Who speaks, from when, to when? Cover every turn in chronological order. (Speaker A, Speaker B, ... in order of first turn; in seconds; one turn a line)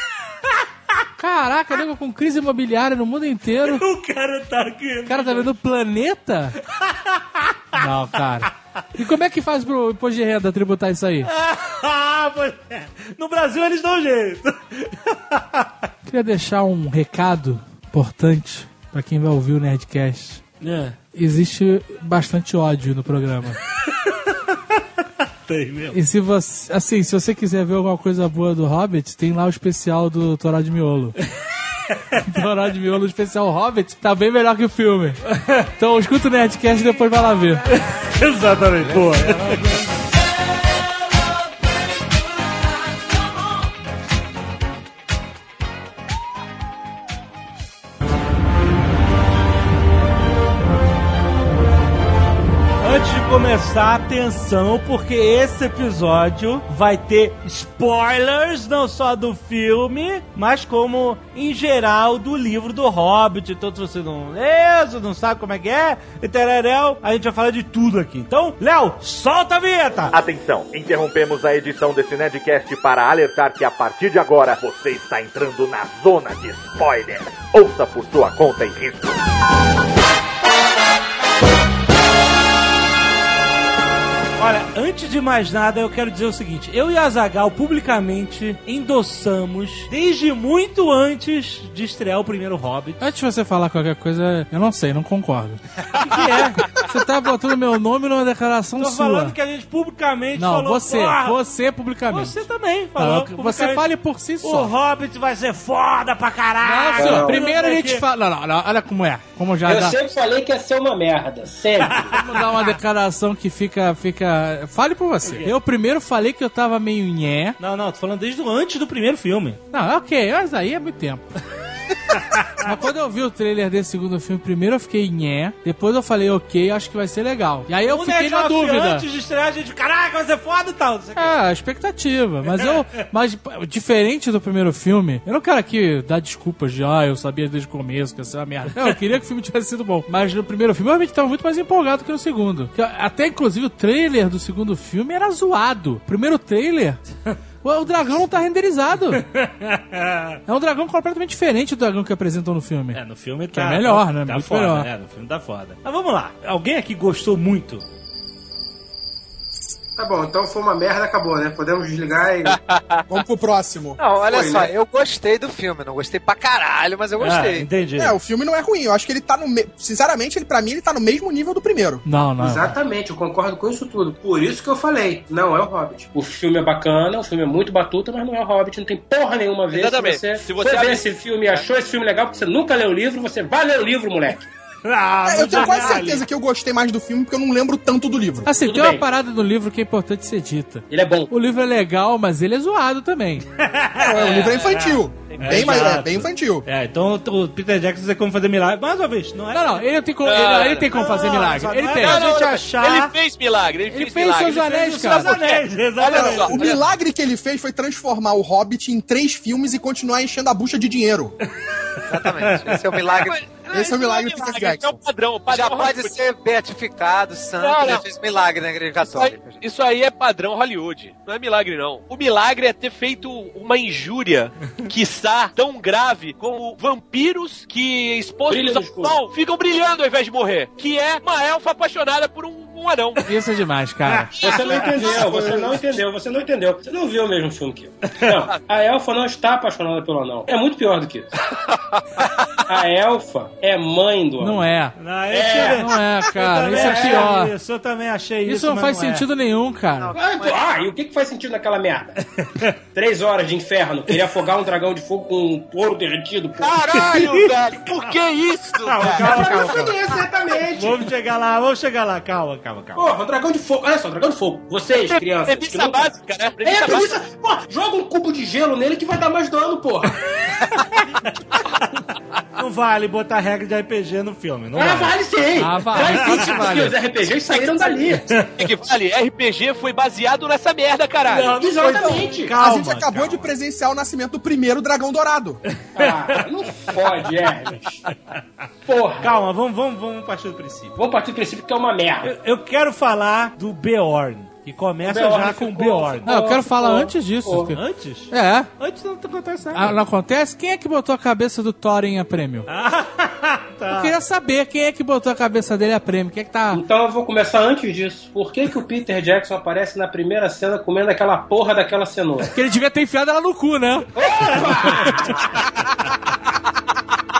Speaker A: 0.4-0.9
Speaker B: 1.2-3.8
Speaker A: 3.6-5.5
Speaker B: 5.1-6.6
Speaker A: 6.6-7.9
Speaker B: 7.7-11.3
Speaker A: 11.2-15.9
Speaker B: 16.1-20.4
Speaker A: 20.6-21.0
Speaker B: 21.1-23.6
Speaker A: 23.8-26.0
Speaker B: 25.9-31.2
Speaker A: 31.4-32.2
Speaker B: 32.2-35.2
Speaker A: 35.3-35.7
Speaker B: 35.8-37.6
Speaker A: 37.7-39.8
Speaker A: 52.8-70.2
Speaker C: 70.1-79.2
Speaker A: 84.4-93.1
Speaker B: 93.0-99.3
Speaker A: 95.9-96.7
Speaker A: 98.8-101.4
Speaker B: 100.3-102.4
Speaker A: 102.1-103.9
Speaker B: 103.0-104.7
Speaker A: 104.4-108.0
Speaker B: 106.6-110.0
Speaker D: 107.0-107.4
Speaker D: 109.7-112.2
Speaker A: 111.9-112.7
Speaker B: 112.1-117.6
Speaker A: 115.2-115.5
Speaker A: 117.6-119.6
Speaker B: 119.7-121.2
Speaker A: 122.1-122.7
Speaker B: 122.6-129.0
Speaker A: 127.8-131.4
Speaker B: 131.2-147.0
Speaker A: 132.5-132.8
Speaker B: 147.6-149.2
Speaker A: 149.1-150.4
Speaker B: 150.5-153.0
Speaker A: 152.9-157.8
Speaker B: 153.5-154.9
Speaker D: 160.0-162.6
Speaker E: 163.1-164.0
Speaker F: 164.0-167.7
Speaker D: 164.2-164.7
Speaker A: 167.2-168.2
Speaker E: 168.0-172.0
Speaker B: 172.0-172.7
Speaker D: 172.4-184.5
Speaker G: 179.7-181.0
Speaker A: 184.8-186.2
Speaker E: 185.2-188.5
Speaker B: 188.4-193.4
Speaker D: 188.6-189.0
Speaker D: 190.9-191.3
Speaker A: 193.6-199.9
Speaker E: 194.0-196.6
Speaker G: 195.3-196.0
Speaker B: 199.5-202.2
Speaker G: 200.2-201.2
Speaker A: 200.6-203.1
Speaker G: 202.0-206.8
Speaker B: 203.9-205.3
Speaker A: 204.5-206.8
Speaker E: 206.1-211.3
Speaker F: 212.1-213.4
Speaker A: 212.2-212.8
Speaker G: 213.2-216.2
Speaker E: 213.7-215.0
Speaker F: 215.5-219.6
Speaker G: 217.6-218.0
Speaker G: 219.0-233.2
Speaker D: 228.5-229.2
Speaker B: 233.2-234.3
Speaker D: 234.4-241.3
Speaker E: 234.7-235.8
Speaker D: 242.6-244.7
Speaker B: 244.4-244.9
Speaker A: 245.0-249.3
Speaker D: 245.3-245.9
Speaker B: 245.6-247.5
Speaker D: 246.7-247.3
Speaker B: 248.4-250.1
Speaker F: 250.0-250.7
Speaker D: 250.1-252.2
Speaker A: 252.4-252.7
Speaker D: 252.9-257.0
Speaker G: 256.6-259.7
Speaker A: 257.0-257.5
Speaker A: 258.9-260.0
Speaker D: 259.0-261.1
Speaker A: 260.7-263.1
Speaker D: 262.9-270.2
Speaker G: 265.1-267.1
Speaker A: 272.5-275.2
Speaker D: 274.7-278.3
Speaker B: 275.6-276.9
Speaker A: 275.9-276.4
Speaker G: 277.5-282.1
Speaker A: 281.3-283.5
Speaker D: 281.3-282.5
Speaker E: 282.6-285.6
Speaker D: 285.9-288.0
Speaker A: 286.0-286.4
Speaker D: 288.9-289.4
Speaker A: 289.2-291.0
Speaker D: 291.0-292.3
Speaker A: 292.2-296.3
Speaker D: 295.0-297.7
Speaker B: 296.2-297.8
Speaker A: 297.7-299.9
Speaker B: 298.3-298.7
Speaker B: 299.7-302.7
Speaker A: 302.7-304.2
Speaker B: 303.9-306.8
Speaker D: 306.7-312.5
Speaker B: 312.5-314.1
Speaker D: 314.2-315.7
Speaker A: 314.5-314.9